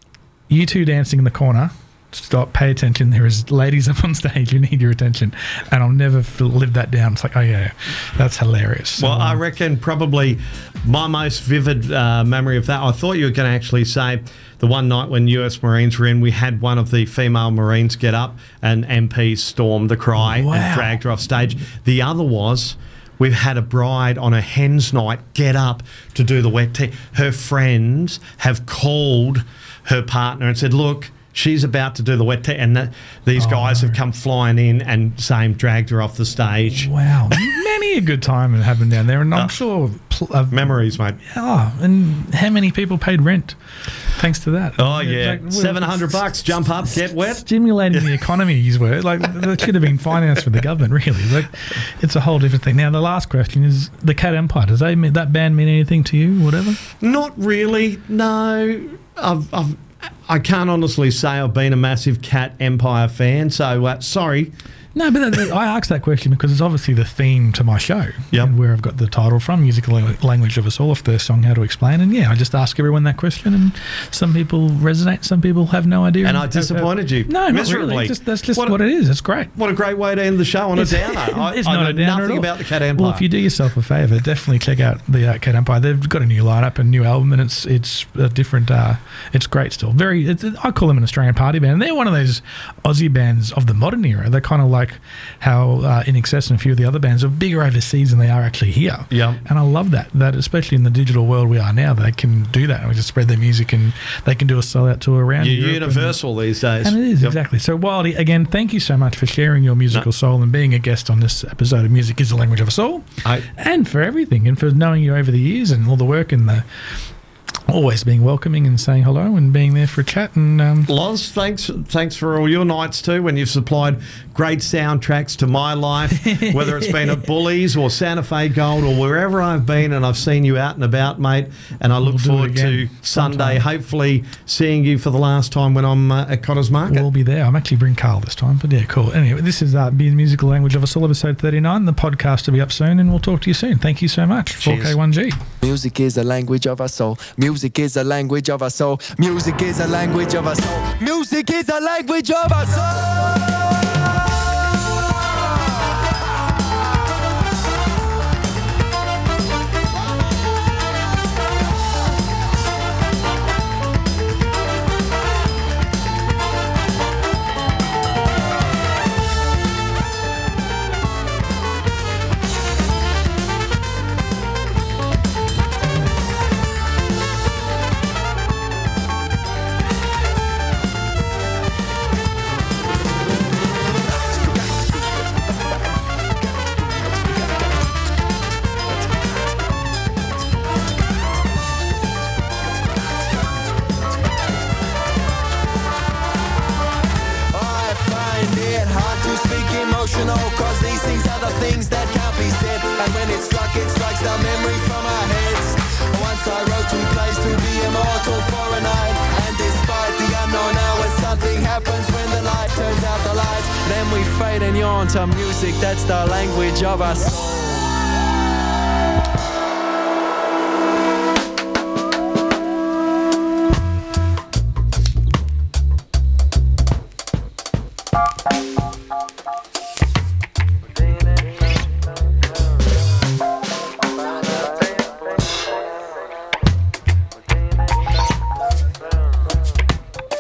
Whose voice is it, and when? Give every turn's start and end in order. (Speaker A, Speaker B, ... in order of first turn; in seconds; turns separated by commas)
Speaker A: 0.5-9.4, Speaker B: 9.0-36.9, Speaker A: 20.2-21.0, Speaker A: 33.4-34.0, Speaker A: 36.7-46.2, Speaker B: 39.3-39.6, Speaker B: 40.5-41.2, Speaker B: 44.8-48.1, Speaker A: 47.3-56.8, Speaker B: 57.0-64.5, Speaker A: 64.9-79.5, Speaker B: 76.2-78.8, Speaker B: 79.5-83.2, Speaker A: 80.8-106.2, Speaker B: 99.1-99.4, Speaker B: 105.4-107.4, Speaker A: 106.8-116.6, Speaker A: 117.7-120.9, Speaker B: 120.9-137.1, Speaker A: 132.0-133.6, Speaker A: 136.8-145.4, Speaker B: 144.6-145.0, Speaker C: 145.6-153.3, Speaker C: 197.5-217.8